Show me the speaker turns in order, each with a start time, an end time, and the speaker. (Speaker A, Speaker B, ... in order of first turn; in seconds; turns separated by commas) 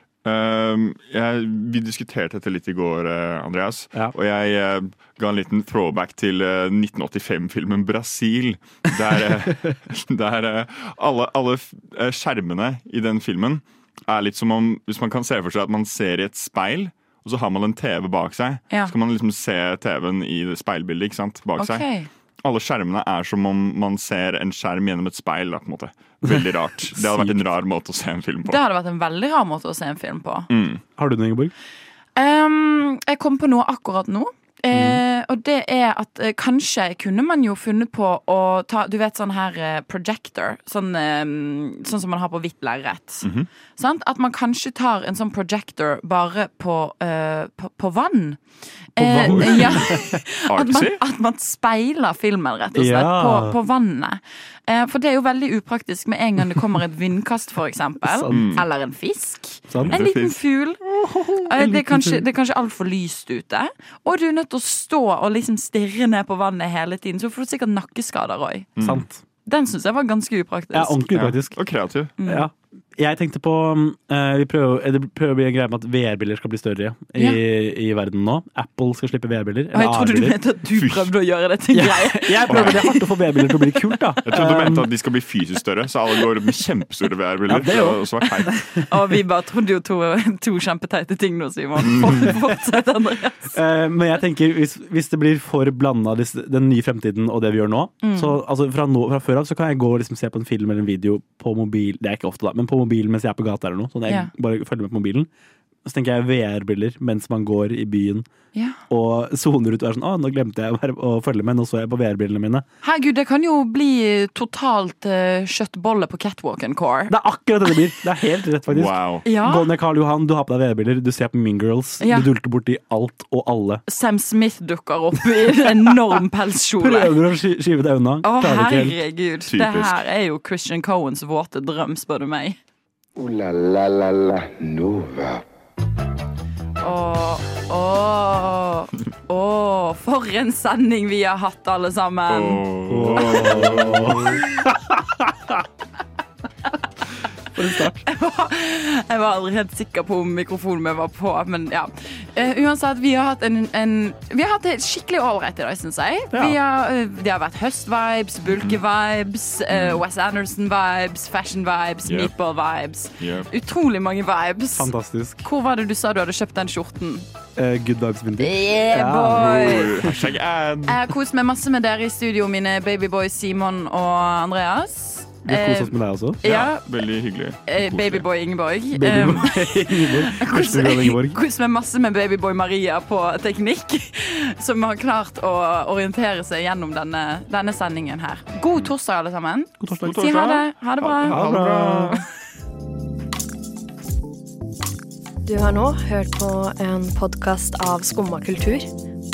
Speaker A: 0.2-21.9, Speaker B: 21.6-22.1, Speaker A: 22.4-28.6, Speaker C: 26.2-27.4, Speaker B: 28.4-30.5, Speaker A: 30.5-30.8, Speaker C: 31.0-31.5, Speaker B: 32.1-43.2, Speaker C: 34.7-35.0, Speaker A: 43.2-43.5, Speaker B: 43.8-48.4, Speaker B: 49.0-60.8, Speaker C: 49.0-50.2, Speaker A: 49.2-49.9, Speaker A: 50.5-51.0, Speaker C: 52.7-53.6, Speaker C: 58.0-58.5, Speaker A: 58.3-58.6, Speaker C: 59.7-60.0, Speaker A: 59.8-60.4, Speaker C: 61.1-62.2, Speaker B: 61.4-68.7, Speaker A: 68.8-69.0, Speaker C: 68.8-69.2, Speaker B: 69.4-71.0, Speaker C: 70.7-71.5, Speaker A: 71.1-72.1, Speaker B: 72.2-72.5, Speaker C: 72.2-80.4, Speaker B: 79.7-83.0, Speaker A: 80.8-81.1, Speaker C: 81.7-84.9, Speaker A: 82.5-82.8, Speaker A: 84.2-88.6, Speaker C: 87.5-88.8, Speaker B: 88.8-93.5, Speaker A: 91.8-92.3, Speaker C: 92.0-92.3, Speaker C: 93.5-105.3, Speaker B: 98.0-98.4, Speaker C: 105.8-108.2, Speaker B: 108.5-108.8, Speaker C: 108.9-112.6, Speaker B: 112.8-117.1, Speaker C: 117.1-123.8, Speaker A: 118.7-119.2, Speaker B: 119.2-119.7, Speaker B: 122.0-122.3, Speaker B: 123.9-127.2, Speaker C: 126.8-129.0, Speaker B: 128.2-132.6, Speaker A: 129.5-130.0, Speaker D: 133.2-135.4, Speaker B: 136.8-142.6, Speaker A: 142.3-144.4, Speaker C: 142.9-145.6, Speaker C: 147.5-148.0, Speaker B: 148.0-164.9, Speaker A: 158.5-158.8, Speaker A: 159.7-160.0, Speaker A: 162.0-162.3, Speaker A: 163.2-163.5, Speaker C: 164.7-165.4, Speaker B: 165.4-167.2, Speaker C: 167.6-170.1, Speaker B: 168.4-170.1, Speaker A: 169.3-171.0, Speaker B: 170.9-176.9, Speaker C: 175.4-176.4, Speaker A: 176.4-178.2, Speaker B: 177.7-191.8, Speaker C: 178.9-181.4, Speaker C: 189.8-190.5, Speaker A: 190.0-192.2, Speaker C: 191.2-192.2, Speaker E: 195.4-198.9